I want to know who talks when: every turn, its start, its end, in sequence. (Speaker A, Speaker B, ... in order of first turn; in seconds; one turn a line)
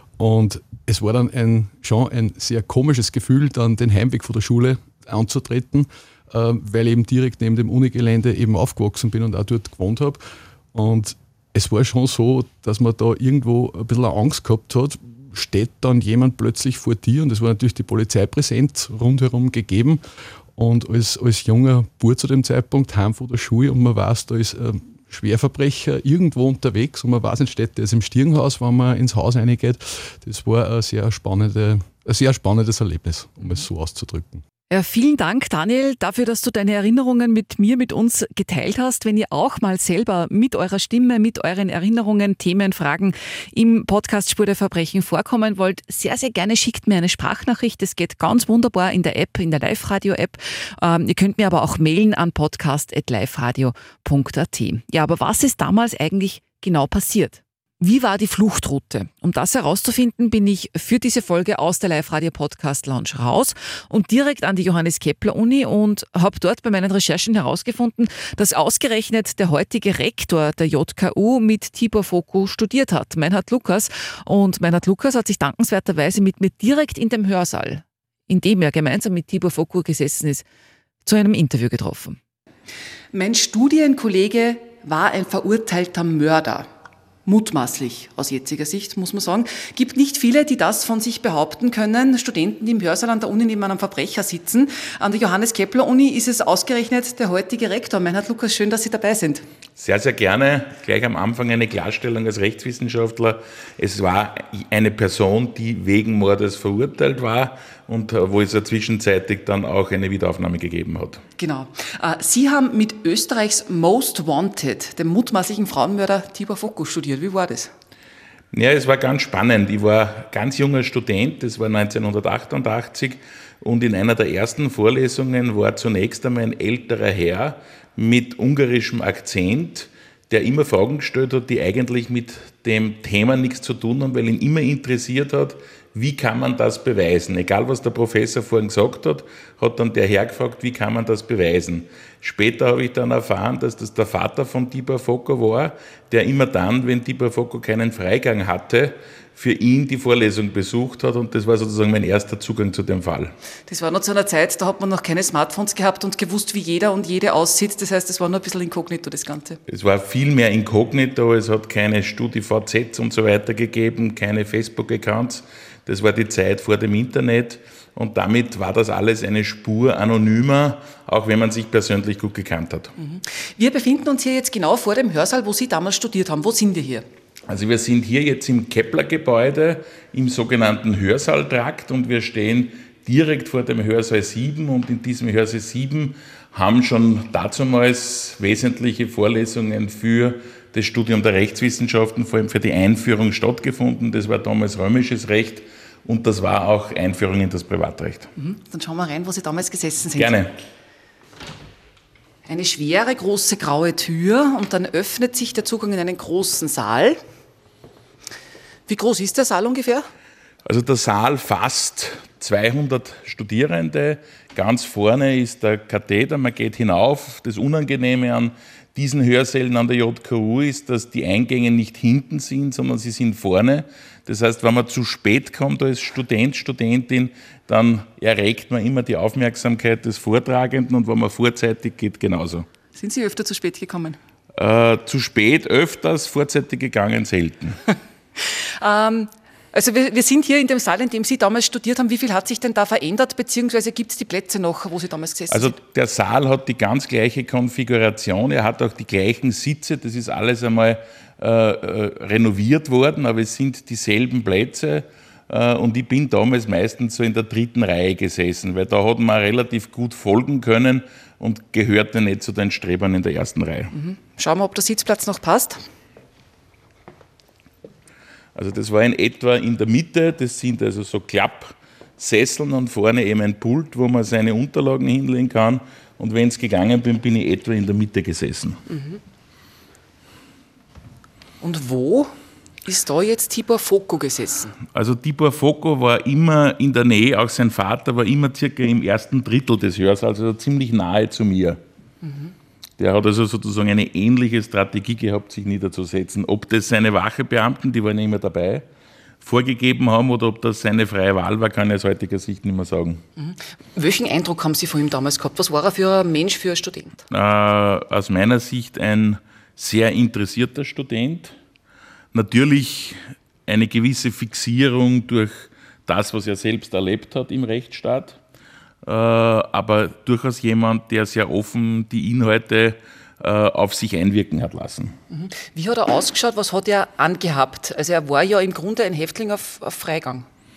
Speaker A: 0.2-10.2
Speaker A: 10.7-20.0
Speaker A: 20.6-34.4
Speaker B: 34.7-80.4
Speaker B: 81.0-82.2
Speaker B: 83.1-86.7
Speaker B: 87.2-99.4
Speaker C: 99.8-111.2
Speaker B: 111.4-117.7
Speaker C: 118.5-153.3
Speaker B: 153.7-159.6
Speaker C: 159.7-172.9
Speaker B: 173.0-177.0
Speaker C: 177.5-198.3
Speaker B: 198.3-200.4
Speaker C: 200.2-200.5
Speaker B: 202.4-207.2
Speaker B: 208.9-210.1
Speaker C: 210.7-232.7
Speaker B: 232.9-234.2
Speaker C: 234.5-237.8
Speaker B: 238.8-245.8
Speaker C: 245.5-263.9
Speaker B: 263.9-265.8
Speaker C: 268.5-278.8
Speaker B: 278.9-279.2
Speaker B: 281.6-282.3
Speaker B: 282.8-284.8
Speaker C: 284.9-291.8
Speaker B: 292.2-292.5
Speaker C: 293.0-298.9
Speaker C: 299.4-303.2
Speaker B: 303.4-307.2
Speaker C: 307.3-311.6
Speaker C: 312.3-318.4
Speaker C: 319.0-325.1
Speaker B: 325.3-330.4